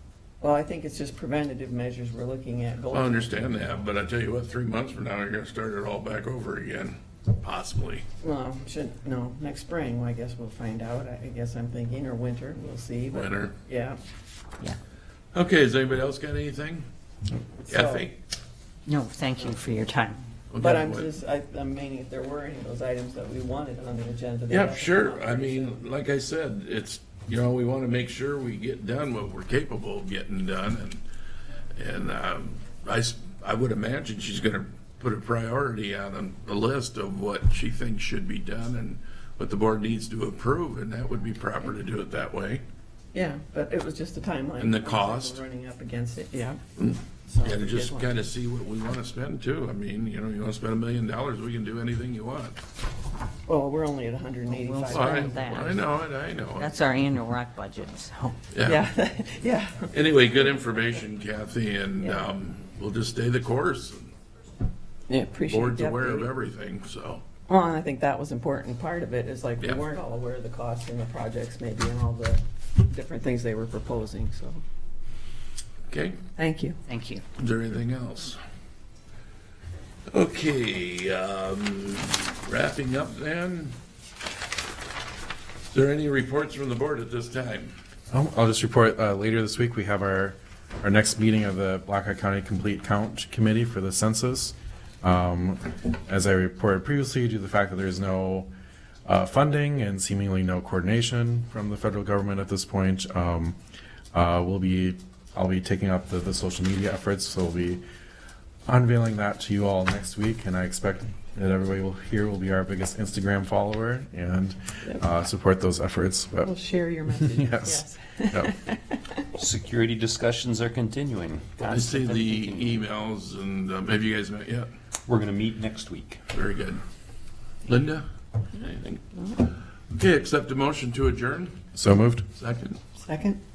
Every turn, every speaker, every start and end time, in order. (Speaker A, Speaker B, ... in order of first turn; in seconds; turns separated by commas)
Speaker A: 0.4-3.6, Speaker B: 2.9-8.0, Speaker A: 8.2-14.0, Speaker B: 13.1-13.6, Speaker B: 15.3-16.9, Speaker A: 17.7-18.1, Speaker B: 17.7-18.1, Speaker C: 18.9-20.2, Speaker B: 20.5-21.1, Speaker A: 20.6-25.9, Speaker B: 24.5-31.0, Speaker B: 31.7-42.6, Speaker A: 43.1-46.6, Speaker B: 44.6-45.4, Speaker B: 46.8-52.6, Speaker A: 47.3-48.1, Speaker A: 53.5-55.6, Speaker C: 54.5-56.0, Speaker B: 54.9-56.8, Speaker C: 56.5-58.4, Speaker B: 58.5-58.8, Speaker A: 58.6-60.4, Speaker B: 59.9-64.1, Speaker A: 62.0-62.3, Speaker A: 65.1-66.3, Speaker B: 65.5-67.2, Speaker A: 67.5-74.6, Speaker B: 75.9-76.2, Speaker A: 76.4-76.8, Speaker C: 76.9-77.2, Speaker B: 77.4-78.4, Speaker B: 80.1-83.7, Speaker B: 85.7-87.7, Speaker D: 88.1-98.5, Speaker D: 99.0-103.6, Speaker D: 104.1-107.8, Speaker D: 108.7-116.5, Speaker A: 116.4-119.2, Speaker D: 117.1-118.5, Speaker E: 119.3-122.8, Speaker B: 121.6-124.7, Speaker E: 125.0-126.2, Speaker B: 126.3-126.8, Speaker B: 127.7-131.6, Speaker D: 131.7-132.2, Speaker B: 132.3-132.8, Speaker A: 133.0-133.4